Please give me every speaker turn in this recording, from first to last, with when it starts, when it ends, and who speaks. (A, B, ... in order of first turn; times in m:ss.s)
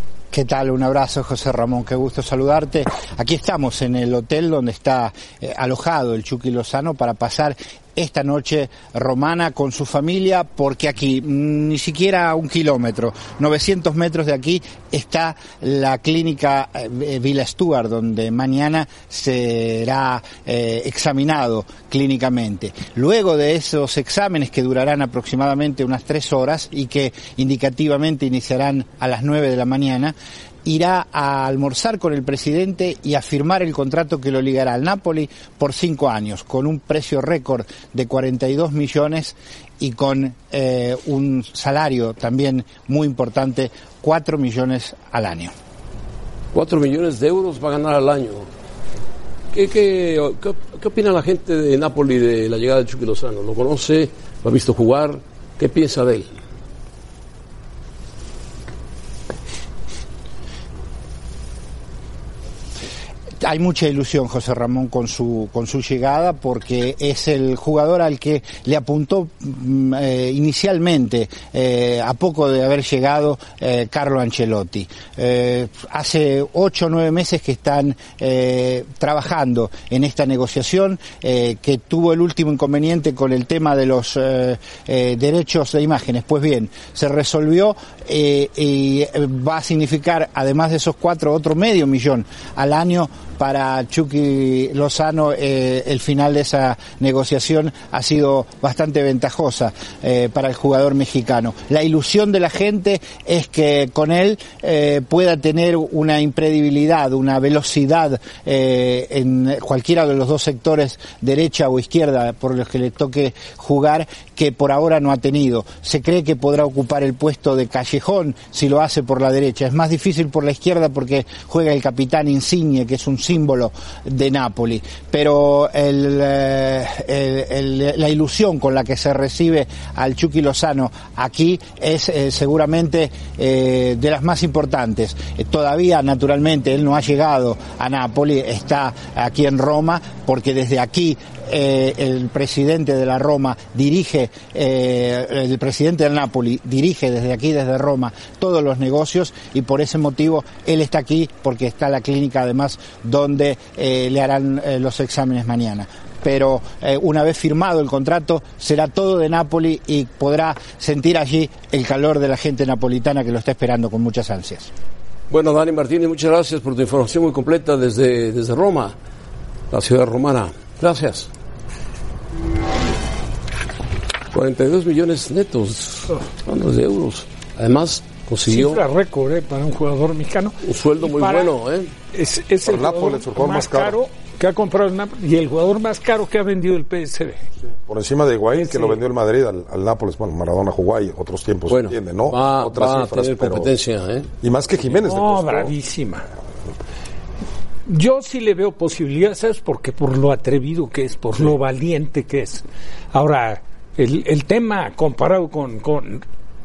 0:00.3-0:45.5 A
0:46.5-0:48.5 B
0:49.5-0:56.3 B
1:03.4-2:44.7 A
2:45.3-2:48.9 B
2:49.7-2:51.3 B
2:54.3-2:58.8 B
2:58.5-3:01.5 C
3:00.6-3:01.9 B
3:02.1-3:07.4 C
3:02.6-3:04.0 D
3:07.8-3:13.7 D
3:08.5-3:09.0 C
3:11.7-3:14.3 B
3:14.4-3:15.7 D
3:15.0-3:16.3 C
3:17.9-3:26.2 C